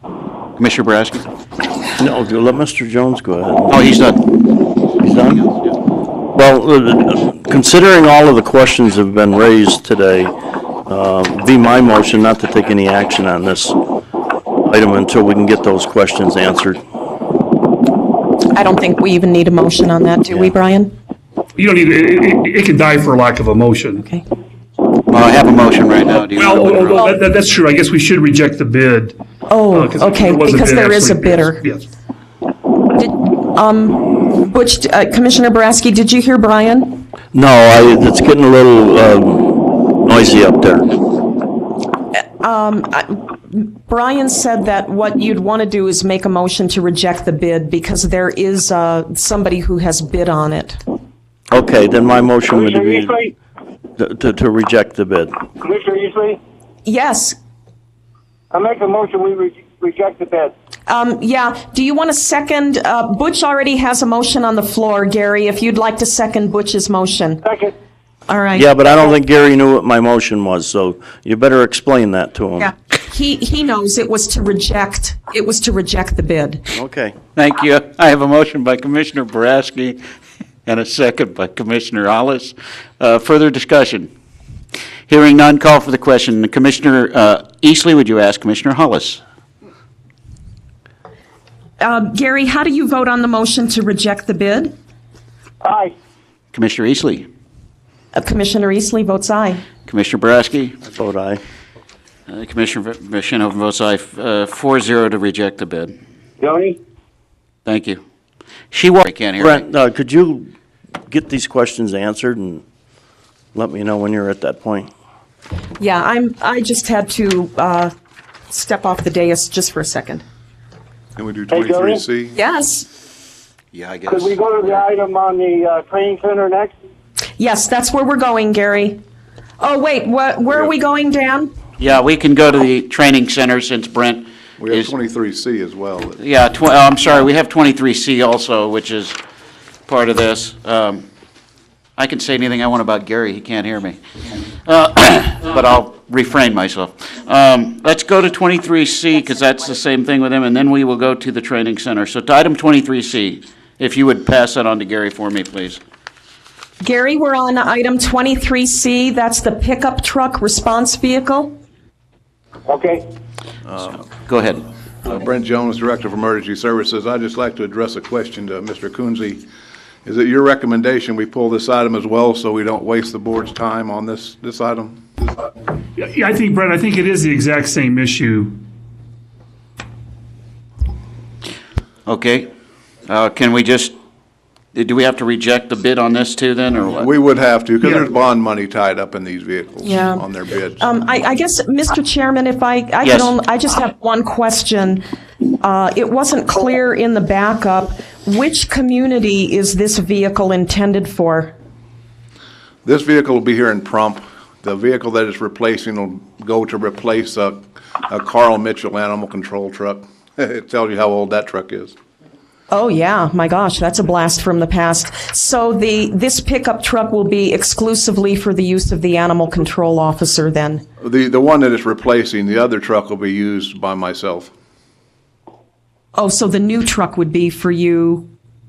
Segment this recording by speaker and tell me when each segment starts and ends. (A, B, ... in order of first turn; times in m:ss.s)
0:00.6-0:01.3 A
0:02.0-0:03.8 B
0:03.7-0:04.3 A
0:05.0-0:05.5 B
0:06.3-0:10.3 B
0:10.9-0:13.8 B
0:14.6-0:16.8 B
0:18.5-0:21.0 C
0:21.6-0:24.1 D
0:25.1-0:27.1 A
0:26.3-0:29.2 D
0:29.5-0:31.6 C
0:29.7-0:31.9 D
0:32.9-0:37.0 C
0:37.3-0:40.9 B
0:42.4-0:50.8 C
0:51.5-0:53.2 B
0:52.5-0:53.3 E
0:54.0-0:55.4 B
0:55.6-0:56.4 E
0:56.8-0:57.4 C
0:58.5-1:00.5 E
1:00.9-1:07.4 C
1:07.4-1:07.7 E
1:08.3-1:08.6 C
1:08.5-1:12.7 B
1:12.6-1:16.6 C
1:16.7-1:17.1 B
1:17.4-1:20.0 A
1:20.6-1:24.1 A
1:25.1-1:29.2 A
1:31.8-1:34.8 C
1:35.6-1:35.9 E
1:36.5-1:37.3 A
1:38.1-1:39.6 C
1:39.8-1:40.8 A
1:40.9-1:41.4 B
1:42.3-1:46.0 A
1:46.4-1:46.7 E
1:47.6-1:48.0 A
1:48.7-1:49.6 A
1:49.4-1:50.5 B
1:51.1-1:52.6 B
1:53.5-1:54.9 B
1:55.8-1:57.9 C
1:58.5-2:00.2 C
2:01.2-2:02.4 F
2:01.5-2:02.0 E
2:02.3-2:02.9 C
2:03.7-2:04.8 A
2:04.1-2:06.7 E
2:07.4-2:09.0 C
2:09.6-2:11.5 C
2:11.8-2:14.9 A
2:14.6-2:16.2 F
2:16.2-2:19.2 A
2:19.9-2:21.0 A
2:22.0-2:24.0 A
2:24.6-2:35.8 A
2:36.8-2:41.6 C
2:42.7-2:43.0 E
2:44.0-2:44.6 A
2:45.0-2:49.4 F
2:50.0-2:55.0 F
2:56.0-2:58.6 D
3:02.0-3:02.5 A
3:03.1-3:03.9 A
3:04.7-3:07.1 A
3:07.0-3:10.9 F
3:09.8-3:10.2 C
3:10.8-3:15.0 C
3:13.0-3:13.3 A
3:15.6-3:21.5 C
3:22.8-3:32.0 F
3:32.7-3:40.8 C
3:41.0-3:44.5 F
3:46.1-3:48.3 C